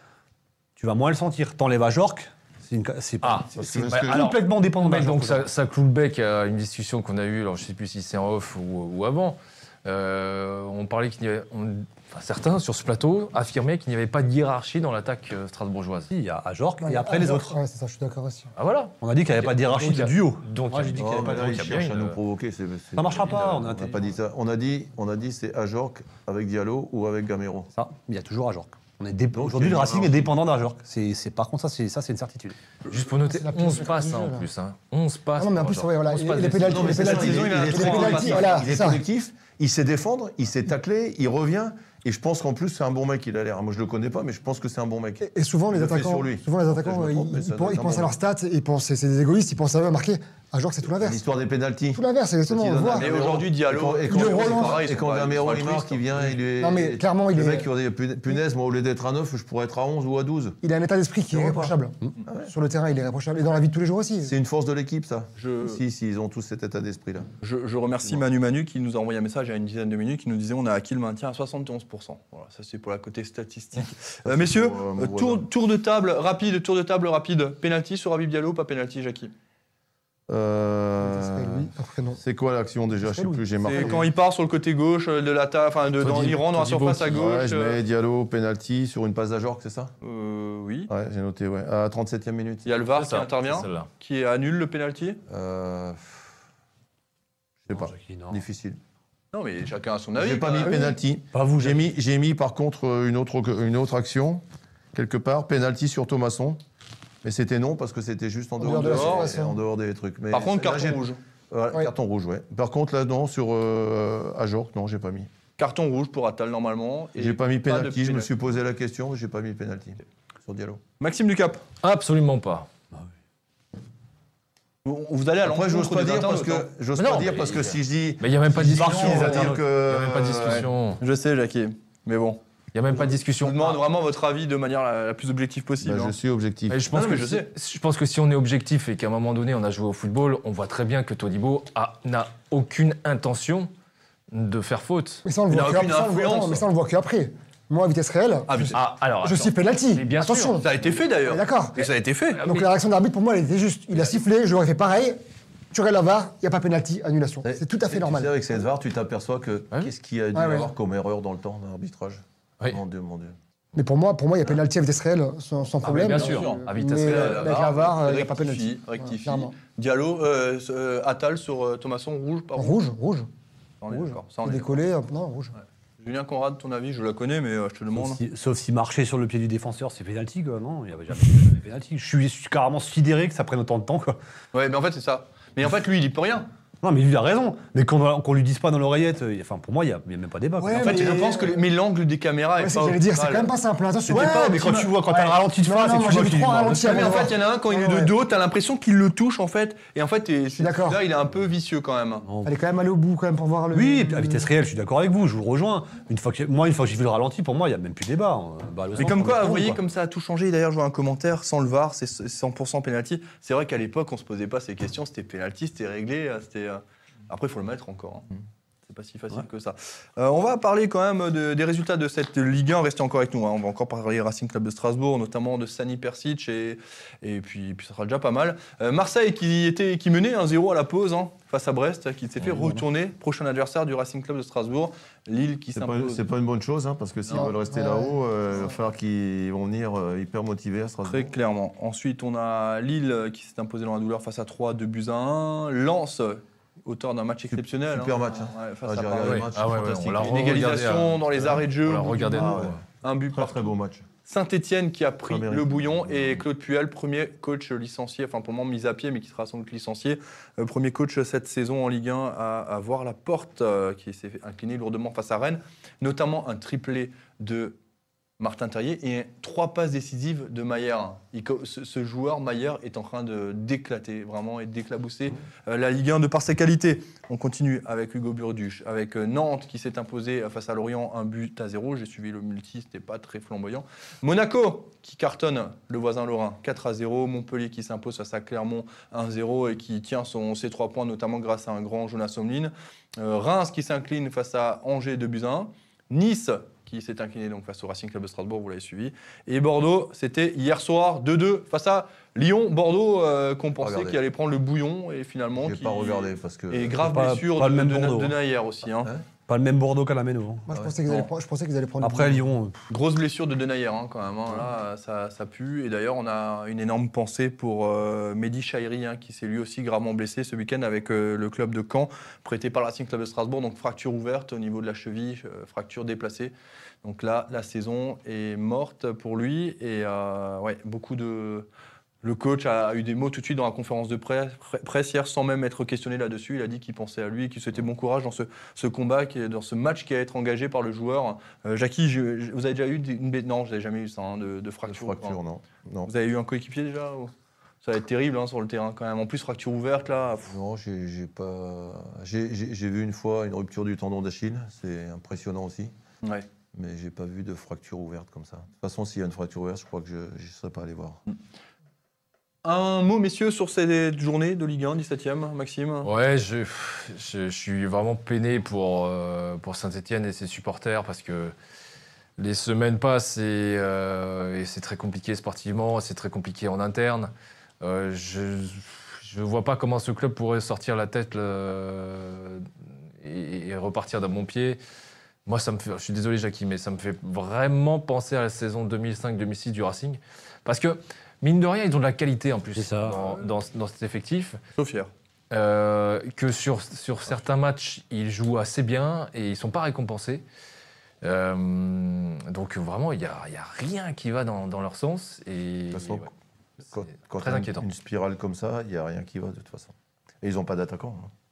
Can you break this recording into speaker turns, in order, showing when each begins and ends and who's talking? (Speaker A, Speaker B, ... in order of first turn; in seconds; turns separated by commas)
Speaker A: 0.8-5.5, Speaker B: 3.2-16.1, Speaker C: 3.6-4.2, Speaker A: 16.1-17.6, Speaker D: 16.8-18.5, Speaker B: 18.6-22.2, Speaker A: 19.0-21.7, Speaker C: 21.0-27.7, Speaker A: 23.0-24.1, Speaker A: 27.8-32.6, Speaker C: 29.3-30.3, Speaker B: 32.9-37.1, Speaker D: 33.2-34.5, Speaker D: 35.4-39.0, Speaker C: 36.6-48.1, Speaker E: 36.8-38.7, Speaker D: 45.2-51.2, Speaker C: 51.0-60.6, Speaker D: 51.9-53.1, Speaker E: 52.9-56.3, Speaker D: 54.1-54.8, Speaker D: 56.6-57.7, Speaker D: 60.6-64.3, Speaker C: 61.3-62.5, Speaker C: 64.2-67.3, Speaker E: 65.4-65.8, Speaker E: 67.4-79.3, Speaker C: 74.2-75.5, Speaker C: 80.3-84.1, Speaker D: 81.0-82.2, Speaker D: 83.0-84.0, Speaker E: 83.6-87.8, Speaker B: 86.0-87.2, Speaker C: 87.1-89.9, Speaker E: 90.0-90.9, Speaker C: 90.9-92.7, Speaker E: 92.7-95.2, Speaker B: 92.9-93.9, Speaker C: 95.3-96.3, Speaker A: 97.7-98.4, Speaker C: 97.7-98.8, Speaker E: 99.3-101.0, Speaker C: 100.2-104.4, Speaker A: 101.3-101.9, Speaker C: 104.9-106.6, Speaker C: 107.2-115.3, Speaker D: 108.6-109.6, Speaker E: 108.7-109.3, Speaker E: 110.3-111.2, Speaker E: 115.6-118.3, Speaker C: 117.2-120.8, Speaker E: 121.0-121.6, Speaker B: 121.8-122.7, Speaker E: 124.8-126.7, Speaker C: 125.4-130.7, Speaker B: 127.0-131.0, Speaker A: 128.5-129.6, Speaker E: 130.4-132.4, Speaker B: 132.7-133.8, Speaker E: 133.0-136.2, Speaker C: 135.8-136.8, Speaker B: 136.7-143.7, Speaker E: 136.9-137.5, Speaker B: 144.3-145.2, Speaker D: 145.2-150.7, Speaker E: 145.5-146.7, Speaker E: 148.5-148.8, Speaker B: 148.7-150.6, Speaker E: 150.6-152.5, Speaker D: 151.2-151.9, Speaker D: 152.4-155.2, Speaker D: 155.7-158.4, Speaker C: 157.4-163.4, Speaker D: 160.3-160.7, Speaker D: 163.8-169.6, Speaker E: 165.8-172.8, Speaker B: 165.9-167.6, Speaker D: 172.6-173.3, Speaker E: 173.8-174.8, Speaker D: 173.9-175.6, Speaker E: 176.0-178.2, Speaker A: 177.9-184.2, Speaker E: 184.5-186.5, Speaker A: 186.8-191.2, Speaker D: 190.6-191.6, Speaker E: 190.8-193.5, Speaker D: 192.6-198.1, Speaker E: 194.1-194.9, Speaker A: 194.1-197.3, Speaker E: 196.8-202.3, Speaker D: 200.6-201.0, Speaker A: 202.3-202.5, Speaker D: 202.4-204.5, Speaker A: 203.7-209.8, Speaker E: 209.0-218.3, Speaker E: 218.9-236.3, Speaker C: 235.7-241.3, Speaker E: 237.3-237.5, Speaker D: 237.3-238.2, Speaker E: 241.1-253.7, Speaker C: 247.5-250.3, Speaker B: 249.2-252.8, Speaker C: 252.3-254.1, Speaker E: 254.3-267.8, Speaker C: 255.3-256.4, Speaker E: 268.4-309.1, Speaker C: 303.8-304.2, Speaker C: 305.6-307.1, Speaker A: 307.0-308.4, Speaker A: 309.5-310.7, Speaker D: 310.7-312.4, Speaker A: 312.0-312.8, Speaker E: 312.9-331.7, Speaker E: 332.2-345.4, Speaker C: 344.9-346.1, Speaker E: 346.1-347.3, Speaker E: 347.8-350.6, Speaker C: 350.5-355.9, Speaker C: 356.7-361.2, Speaker E: 362.6-366.1, Speaker B: 366.0-371.5, Speaker B: 372.4-384.8, Speaker B: 385.5-394.6, Speaker A: 392.8-393.2, Speaker E: 394.8-395.1, Speaker B: 395.5-400.4, Speaker B: 401.2-406.3, Speaker C: 405.9-406.3, Speaker C: 406.9-411.3, Speaker B: 407.4-407.9